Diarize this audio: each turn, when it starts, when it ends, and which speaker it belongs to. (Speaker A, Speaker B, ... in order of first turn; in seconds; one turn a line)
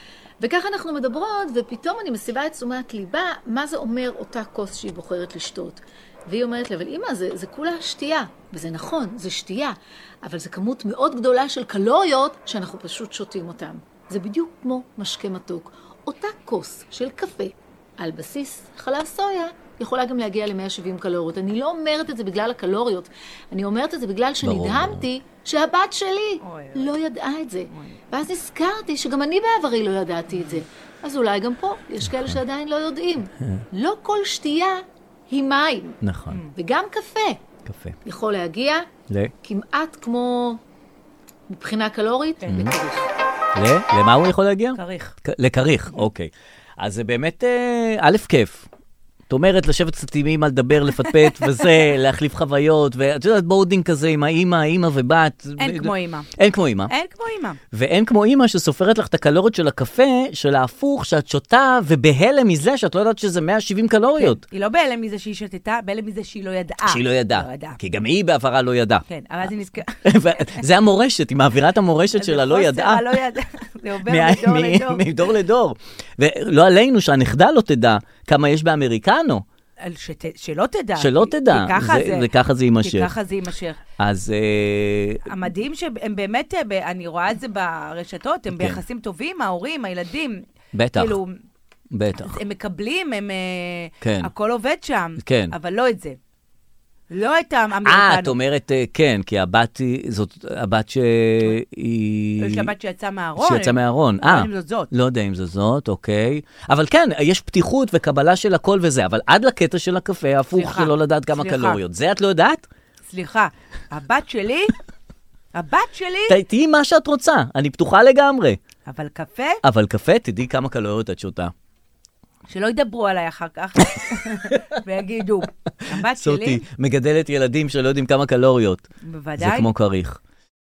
Speaker A: 0.4-36.0
Speaker B: 24.4-25.1
Speaker C: 26.4-26.9
Speaker C: 27.7-28.0
Speaker B: 32.1-32.4
Speaker B: 36.0-36.4
Speaker A: 36.5-37.4
Speaker B: 37.6-38.0
Speaker A: 38.0-38.9
Speaker A: 39.4-40.6
Speaker A: 41.5-43.1
Speaker B: 42.5-42.8
Speaker B: 43.5-48.7
Speaker C: 44.7-45.1
Speaker B: 49.3-56.9
Speaker C: 55.6-56.3
Speaker C: 56.9-57.6
Speaker B: 57.7-64.4
Speaker C: 64.2-67.8
Speaker B: 66.8-69.0
Speaker C: 69.1-70.6
Speaker B: 70.0-73.1
Speaker C: 72.2-75.0
Speaker B: 74.0-79.4
Speaker C: 79.8-82.3
Speaker B: 81.0-83.1
Speaker C: 82.8-83.8
Speaker B: 84.0-85.3
Speaker C: 85.2-91.3
Speaker B: 88.5-88.8
Speaker B: 90.7-91.2
Speaker B: 91.9-92.4
Speaker C: 92.2-96.2
Speaker B: 94.0-94.3
Speaker B: 95.2-95.5
Speaker C: 97.1-98.4
Speaker B: 97.8-102.7
Speaker C: 102.4-104.9
Speaker B: 103.4-112.6
Speaker C: 110.5-111.8
Speaker C: 113.1-114.7
Speaker C: 115.5-116.4
Speaker B: 116.3-118.6
Speaker C: 118.9-119.6
Speaker B: 119.6-121.5
Speaker C: 122.5-126.6
Speaker B: 125.9-128.8
Speaker C: 129.0-129.7
Speaker B: 129.4-130.2